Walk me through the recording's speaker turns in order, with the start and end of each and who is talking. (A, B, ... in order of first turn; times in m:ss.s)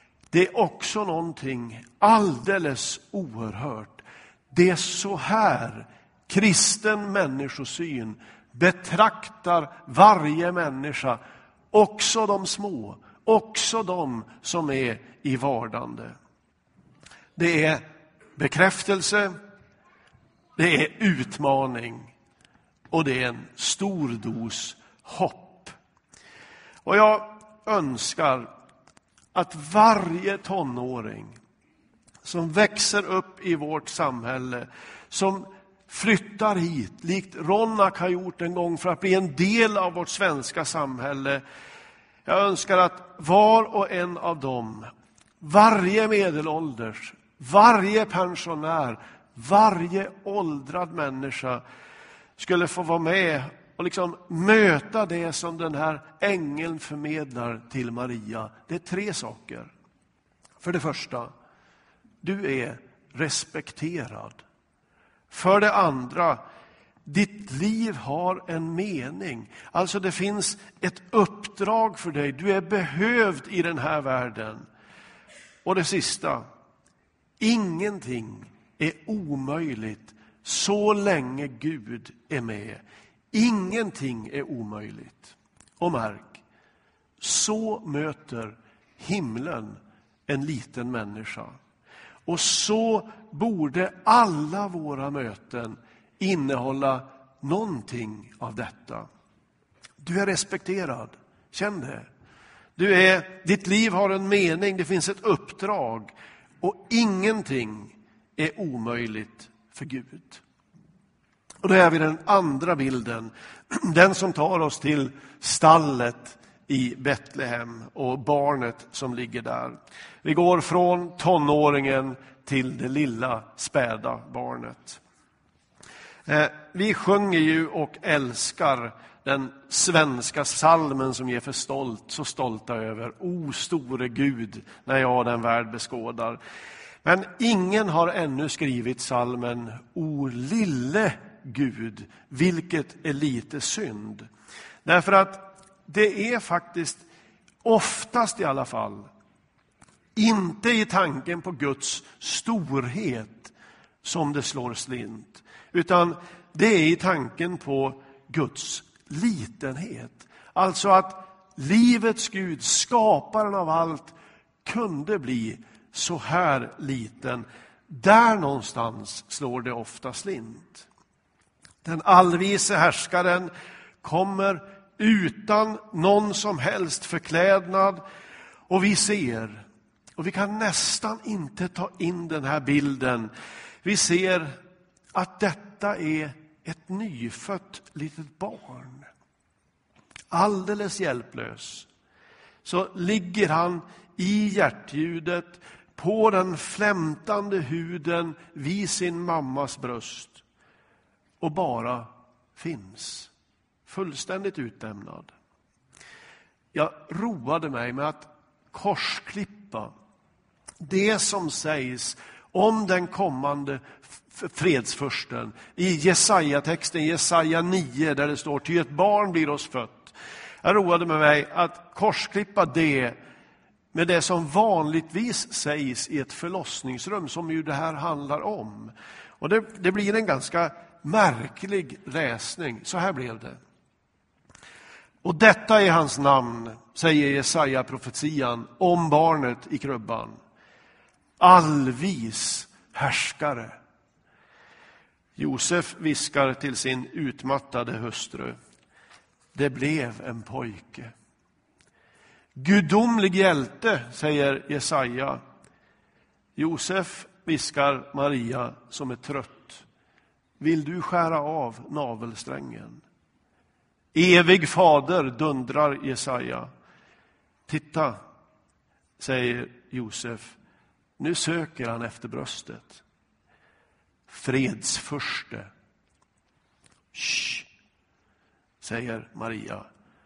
0:00.3-0:11.2 A
0:11.7-0:16.2 A
0:17.4-0:17.8 A
0:18.4-0:19.3 A
0:20.6-0:22.1 A
0:22.9-0:25.8 A
0:26.8-0:28.5 A
0:29.3-0:31.4 A
0:32.2-0:41.4 A
0:42.3-0:51.6 A
0:52.4-0:59.7 A
1:00.6-1:01.3 A
1:02.2-1:04.4 A
1:05.3-1:06.4 A
1:07.1-1:14.6 A
1:15.6-1:16.4 A
1:17.4-1:26.4 A
1:27.2-1:31.6 A
1:32.3-1:39.1 A
1:40.0-1:42.1 A
1:42.8-1:50.4 A
1:51.6-2:05.0 A
2:06.3-2:16.4 A
2:17.0-2:24.3 A
2:24.8-2:27.0 A
2:27.6-2:29.1 A
2:30.2-2:50.9 A
2:51.8-2:53.5 A
2:54.0-2:58.0 A
2:58.7-2:59.6 A
3:00.2-3:03.3 A
3:03.8-3:04.6 A
3:05.2-3:09.1 A
3:10.3-3:11.9 A
3:12.6-3:20.4 A
3:21.4-3:23.3 A
3:23.9-3:25.3 A
3:26.7-3:29.9 A
3:30.8-3:43.2 A
3:43.9-3:53.6 A
3:55.2-4:00.4 A
4:01.4-4:03.8 A
4:05.4-4:08.6 A
4:09.5-4:11.1 A
4:12.6-4:15.4 A
4:16.6-4:19.8 A
4:20.6-4:23.0 A
4:24.1-4:26.7 A
4:27.7-4:28.2 A
4:29.2-4:30.6 A
4:31.2-4:33.0 A
4:34.3-4:35.7 A
4:37.1-4:37.7 A
4:38.8-4:39.8 A